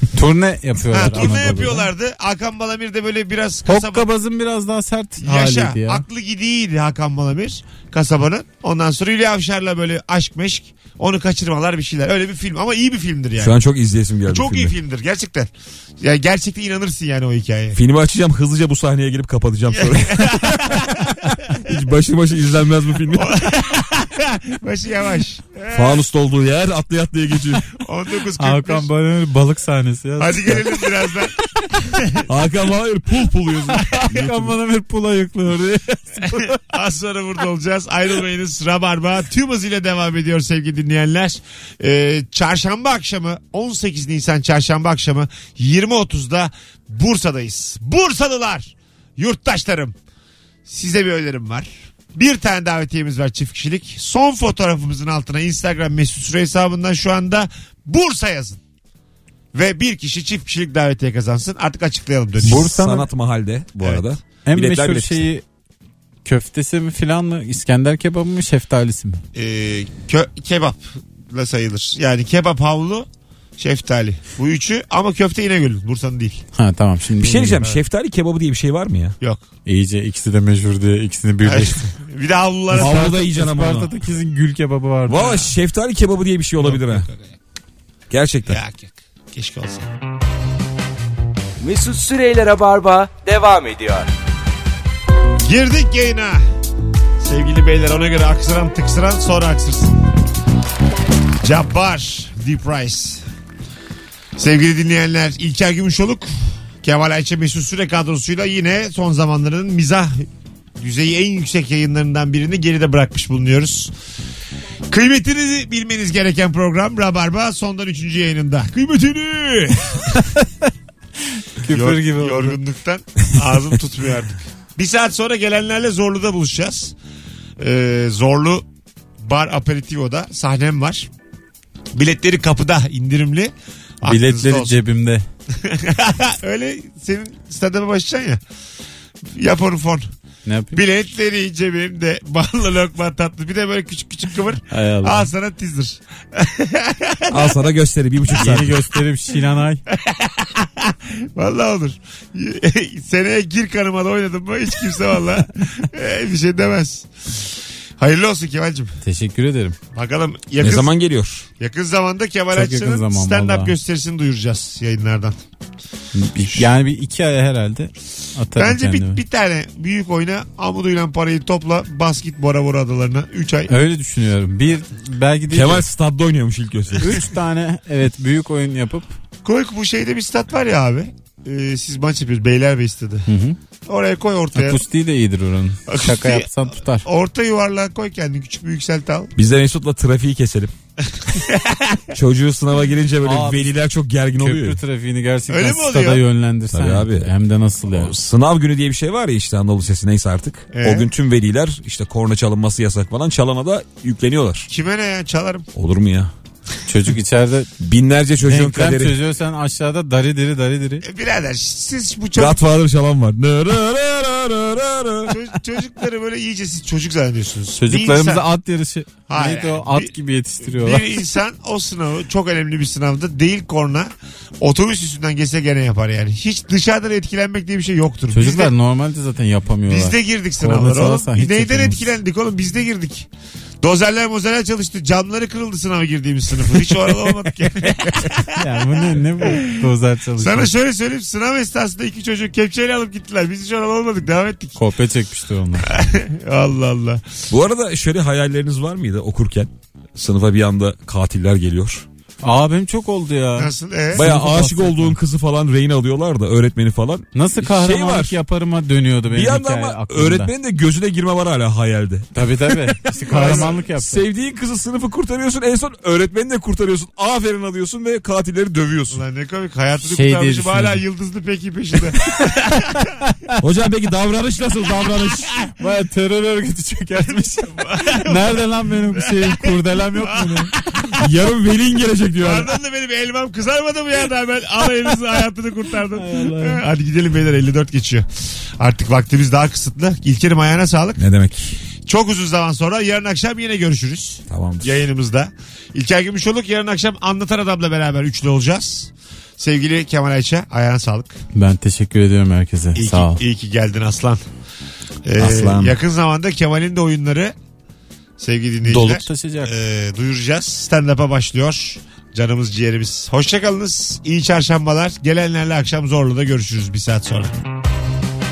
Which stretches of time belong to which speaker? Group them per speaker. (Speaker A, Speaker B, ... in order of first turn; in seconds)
Speaker A: 0.1-1.9, 3.7-6.0, 28.4-30.9, 33.7-36.6, 62.4-63.1, 64.5-65.4, 66.2-69.2, 76.5-77.8, 79.7-81.9, 82.7-85.3, 121.4-122.6, 134.0-135.2, 140.5-140.8, 144.7-145.3, 148.3-149.8, 159.0-159.8, 162.5-163.8, 166.1-169.2, 173.7-175.9, 177.0-179.2, 183.3-183.6, 184.6-187.1, 193.2-193.8, 194.4-198.1, 206.9-207.7, 208.4-211.1, 217.8-221.1, 228.3-232.1, 238.5-240.7, 244.8-245.9, 252.4-255.2, 257.4-260.5, 262.3-264.2, 270.0-271.0, 272.8-273.5, 275.7-280.7, 286.1-286.8, 301.6-303.4, 308.8-309.7
Speaker B: 0.9-4.1, 5.2-13.6, 14.3-17.8, 19.7-21.6, 23.1-26.1, 27.7-28.9, 30.2-32.3, 36.3-50.0, 50.7-58.6, 59.5-62.7, 69.3-76.4, 81.4-83.1, 85.2-85.5, 86.6-87.4, 88.5-89.9, 95.4-96.4, 97.2-100.0, 101.4-103.2, 104.4-113.9, 114.9-120.2, 121.7-127.0, 127.6-128.7, 129.2-131.1, 131.9-134.8, 135.6-138.4, 139.3-140.1, 140.7-147.6, 149.9-159.0, 159.9-160.9, 161.5-165.4, 168.6-173.7, 179.4-183.3, 183.9-184.8, 185.9-189.3, 191.2-192.0, 195.5-196.2, 200.7-201.1, 204.7-205.7, 211.0-212.6, 215.3-218.4, 219.3-220.1, 220.7-228.7, 229.9-233.3, 233.8-244.8, 245.8-247.2, 253.6-254.2, 263.3-263.8, 269.1-273.1, 277.6-281.2, 282.4-291.2, 292.1-301.4, 303.0-304.4, 305.2-307.6, 308.4-317.6
Speaker C: 13.4-14.7, 17.8-23.4, 25.7-27.7, 32.3-34.5, 62.5-65.3, 77.2-79.2, 82.7-84.0, 85.1-87.1, 88.1-88.6, 147.3-148.8, 160.6-161.4, 175.5-177.2, 189.4-190.7, 192.1-194.8, 196.7-197.3, 197.9-204.7, 205.8-206.3, 207.8-209.2, 212.4-215.4, 247.5-252.1, 254.1-258.4, 259.3-269.2, 273.6-275.6, 281.2-282.7, 291.2-291.8, 294.5-294.9, 305.4-305.9
Speaker D: 91.6-94.1